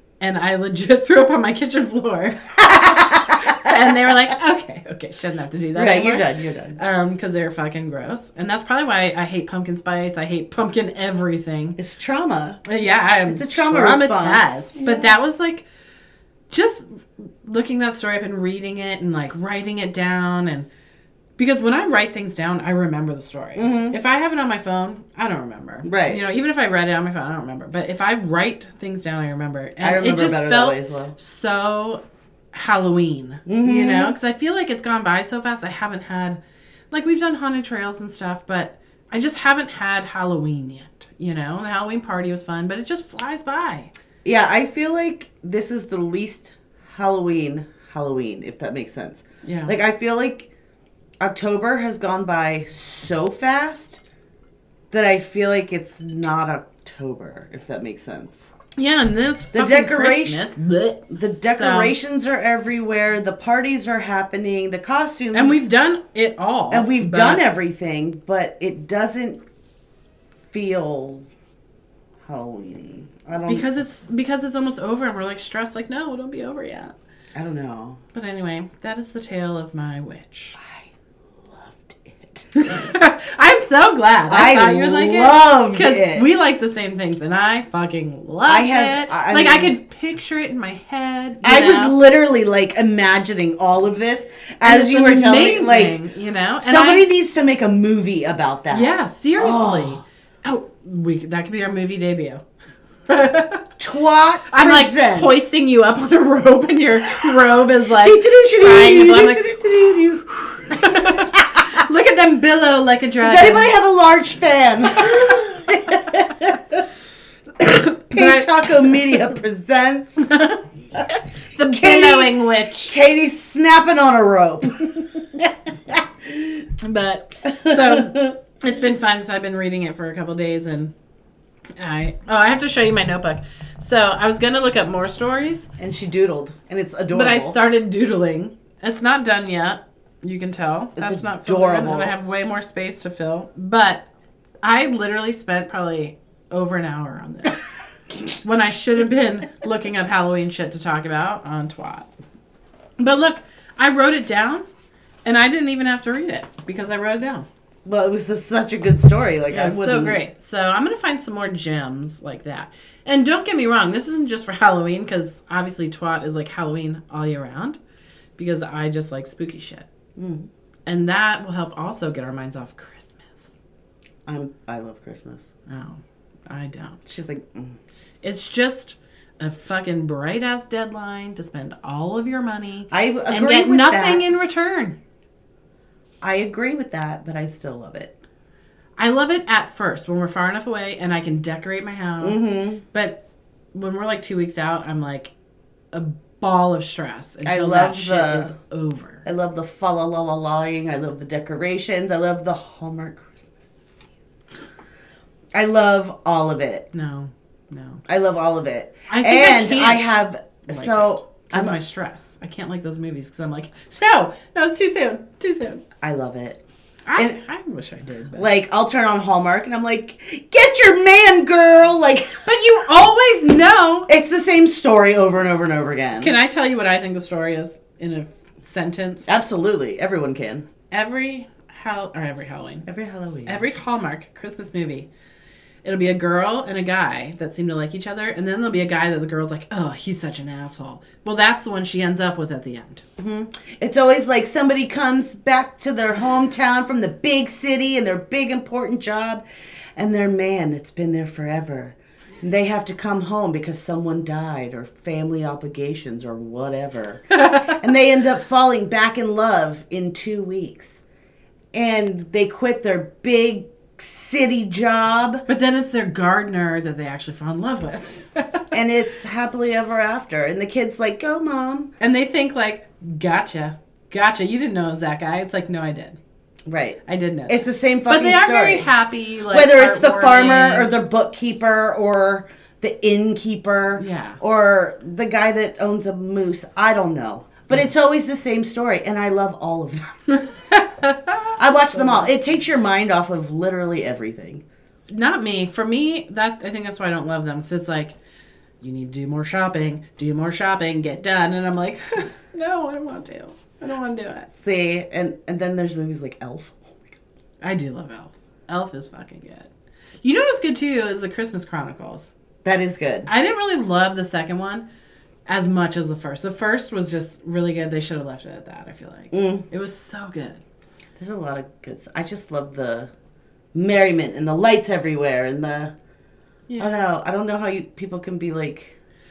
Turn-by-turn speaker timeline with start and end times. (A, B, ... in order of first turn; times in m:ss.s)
0:00.2-0:11.8 A
0:02.6-0:03.7 B
0:05.7-0:06.8 B
0:11.8-0:12.6 B
0:12.6-0:15.6 A
0:13.3-0:14.5 B
0:16.5-0:20.7 A
0:21.4-0:36.4 A
0:23.6-0:24.0 B
0:25.8-0:26.2 B
0:29.8-0:31.1 B
0:33.5-0:34.1 B
0:36.9-0:43.9 A
0:44.2-0:50.5 B
0:49.4-0:49.8 A
0:51.2-0:54.0 B
0:54.9-0:58.5 B
0:58.8-1:01.9 A
0:59.5-1:00.4 B
1:01.1-1:05.7 B
1:05.3-1:07.4 A
1:06.7-1:09.4 B
1:10.5-1:11.3 B
1:12.2-1:13.7 B
1:13.5-1:16.9 A
1:17.3-1:18.0 B
1:18.1-1:20.6 A
1:20.6-1:22.9 B
1:22.6-1:32.0 A
1:24.3-1:26.3 B
1:28.4-1:29.7 B
1:31.4-1:36.0 B
1:34.6-1:37.1 A
1:36.6-1:40.0 B
1:38.7-1:42.4 A
1:43.1-1:43.7 A
1:43.8-1:45.4 B
1:44.5-1:49.6 A
1:47.2-1:51.6 B
1:50.4-1:53.7 A
1:53.2-1:56.8 B
1:57.6-2:00.2 B
1:58.1-1:59.2 A
2:00.2-2:02.9 A
2:01.7-2:06.6 B
2:06.8-2:10.9 A
2:07.5-2:08.3 B
2:11.8-2:15.7 A
2:15.8-2:17.6 B
2:17.1-2:24.0 A
2:21.0-2:22.1 B
2:24.6-2:32.1 A
2:33.0-2:34.6 A
2:35.2-2:37.5 A
2:37.8-2:40.2 B
2:39.5-2:47.8 A
2:48.4-2:49.9 A
2:50.2-2:50.5 B
2:50.8-2:53.5 A
2:54.2-2:55.4 B
2:55.7-2:57.0 A
2:57.0-2:57.8 B
2:58.2-3:05.0 A
3:02.9-3:04.2 B
3:06.2-3:08.1 B
3:09.0-3:13.2 A
3:12.2-3:12.8 B
3:13.7-3:15.3 A
3:15.9-3:19.2 A
3:17.4-3:18.5 B
3:19.2-3:23.7 B
3:25.5-3:26.9 B
3:26.9-3:28.0 A
3:28.1-3:31.8 B
3:29.1-3:35.8 A
3:36.0-3:36.6 B
3:37.0-3:38.5 A
3:38.3-3:42.5 B
3:42.4-3:44.1 A
3:44.1-3:46.3 B
3:46.2-3:49.3 A
3:49.2-3:50.6 B
3:50.9-3:52.9 A
3:52.8-3:53.6 B
3:53.4-3:55.1 A
3:55.8-4:03.0 A
4:03.2-4:09.4 B
4:09.9-4:21.0 B
4:17.3-4:17.8 A
4:21.7-4:25.4 B
4:25.5-4:28.6 A
4:28.7-4:31.9 B
4:32.0-4:36.2 A
4:36.6-4:38.9 B
4:37.0-4:40.9 A
4:39.5-4:50.1 B
4:44.0-4:44.4 A
4:50.3-4:52.3 A
4:51.6-4:54.6 B
4:55.1-4:58.2 A
4:58.8-5:04.5 A
5:04.5-5:07.2 B
5:07.6-5:09.7 A
5:10.2-5:12.3 A
5:12.6-5:13.3 B
5:13.3-5:14.8 A
5:15.5-5:20.6 A
5:19.3-5:19.6 B
5:21.2-5:23.1 B
5:23.7-5:25.9 B
5:26.7-5:26.9 A
5:26.8-5:29.0 B